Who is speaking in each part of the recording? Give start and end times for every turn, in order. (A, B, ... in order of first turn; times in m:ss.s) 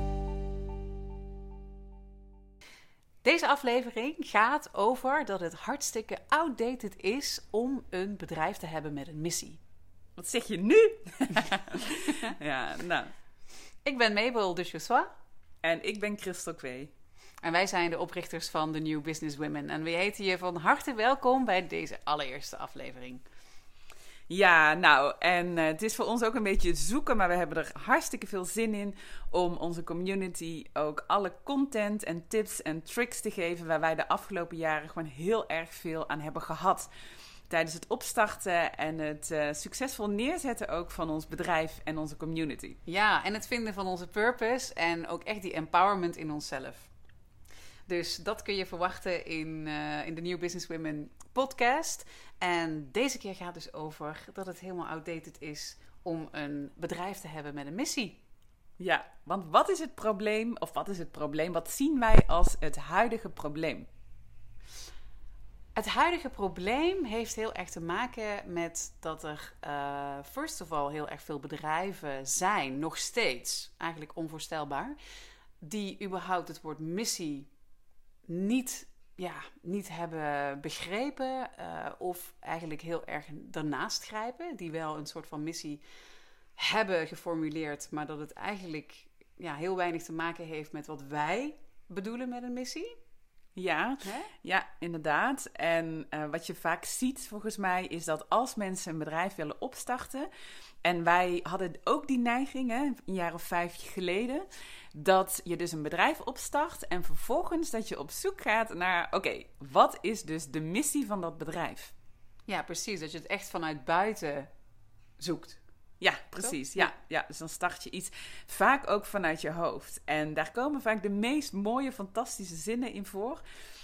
0:03.2-0:09.6 A
0:10.2-0:13.1 B
0:13.8-0:15.1 A
0:15.6-0:16.9 B
0:17.4-0:23.2 A
0:24.3-0:36.9 B
0:37.5-0:42.8 B
0:42.8-0:46.9 A
0:47.9-0:58.2 A
0:58.8-1:03.9 B
1:05.7-1:15.0 A
1:15.6-1:17.5 A
1:18.3-1:25.8 A
1:26.6-1:32.9 A
1:33.5-1:40.3 B
1:34.0-1:34.3 A
1:40.8-1:51.9 B
1:52.5-1:54.5 A
1:55.2-1:55.6 A
1:56.0-2:03.4 B
1:56.4-1:56.9 A